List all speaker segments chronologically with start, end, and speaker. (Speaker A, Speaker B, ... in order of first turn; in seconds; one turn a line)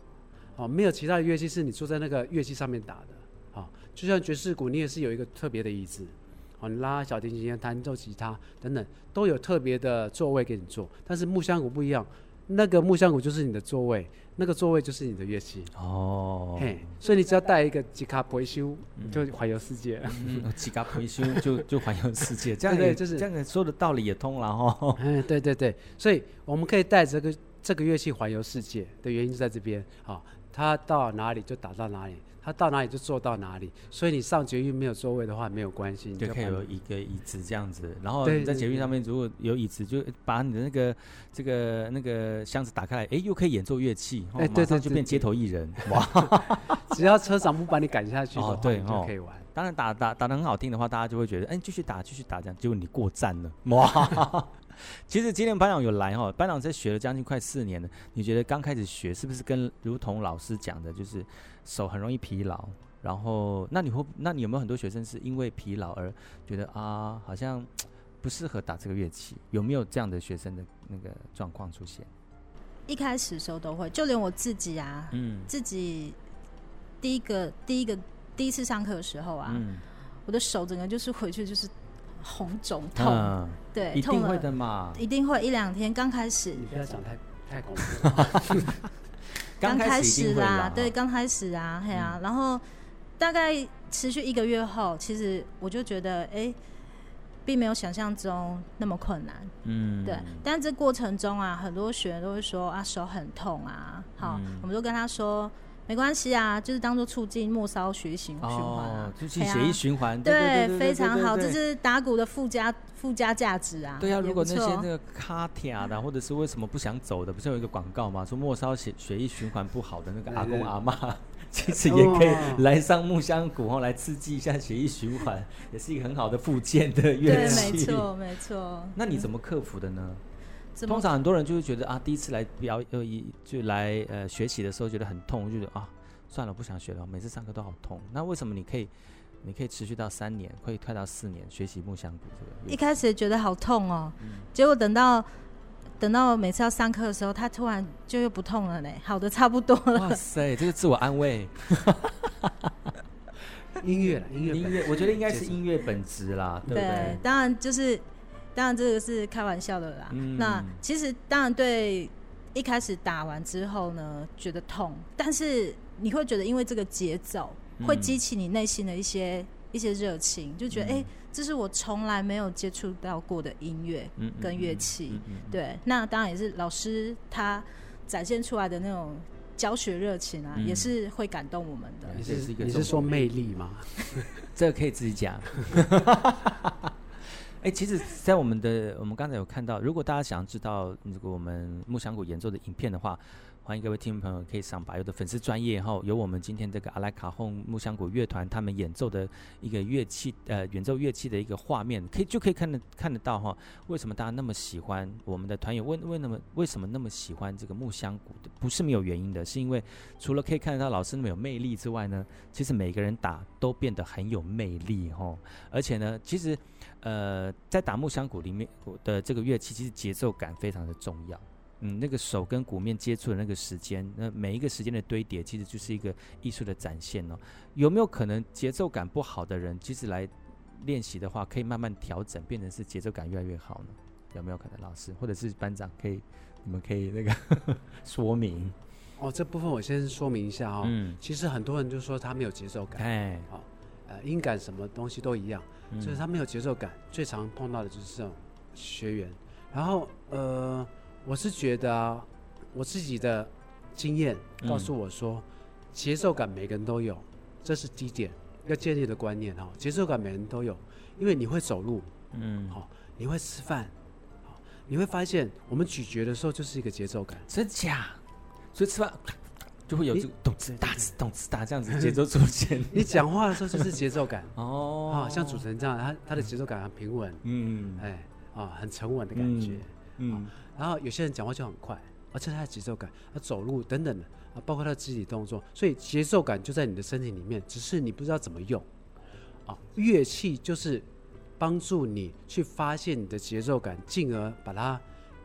Speaker A: 0.6-15.7
Speaker B: 15.8-16.9
Speaker A: 16.6-20.5
Speaker B: 19.0-19.3
Speaker B: 20.1-25.1
Speaker A: 21.2-21.6
Speaker A: 22.6-23.3
Speaker A: 25.0-36.7
Speaker B: 36.2-46.8
Speaker A: 38.2-38.9
Speaker A: 44.4-45.3
Speaker A: 45.8-49.5
Speaker B: 48.4-72.1
Speaker C: 72.9-76.2
Speaker B: 75.1-75.5
Speaker C: 77.0-79.6
Speaker B: 79.5-79.8
Speaker C: 80.3-86.7
Speaker B: 83.0-85.0
Speaker A: 86.6-88.7
Speaker B: 88.0-88.7
Speaker B: 89.6-90.9
Speaker C: 89.6-92.6
Speaker B: 91.9-92.2
Speaker C: 93.2-96.6
Speaker C: 97.5-99.5
Speaker B: 99.6-100.5
Speaker C: 100.0-114.9
Speaker B: 104.2-104.7
Speaker B: 108.4-111.6
Speaker B: 114.0-128.2
Speaker A: 120.3-120.7
Speaker A: 121.8-122.7
Speaker C: 127.2-129.3
Speaker A: 127.3-127.8
Speaker B: 128.9-130.2
Speaker C: 130.8-131.1
Speaker B: 130.9-138.9
Speaker B: 139.4-142.8
Speaker C: 142.7-145.3
Speaker B: 144.2-144.5
Speaker C: 146.0-150.2
Speaker B: 149.9-152.9
Speaker A: 153.8-155.6
Speaker B: 154.3-157.2
Speaker C: 156.7-158.0
Speaker C: 158.6-182.2
Speaker B: 160.1-160.8
Speaker B: 167.8-168.2
Speaker B: 170.7-171.1
Speaker B: 174.2-175.6
Speaker B: 180.6-180.9
Speaker B: 182.1-183.2
Speaker A: 182.2-184.5
Speaker B: 184.4-186.9
Speaker B: 187.6-238.8
Speaker A: 239.2-262.1
Speaker B: 240.8-241.2
Speaker B: 242.9-243.5
Speaker B: 245.9-246.2
Speaker B: 254.6-254.9
Speaker B: 262.3-262.8
Speaker A: 262.7-267.5
Speaker B: 267.5-268.2
Speaker B: 268.7-274.0
Speaker A: 272.9-274.6
Speaker B: 274.6-275.7
Speaker A: 275.1-277.4
Speaker B: 277.4-278.1
Speaker A: 278.0-288.9
Speaker B: 279.4-280.6
Speaker A: 289.7-291.1
Speaker A: 291.6-295.0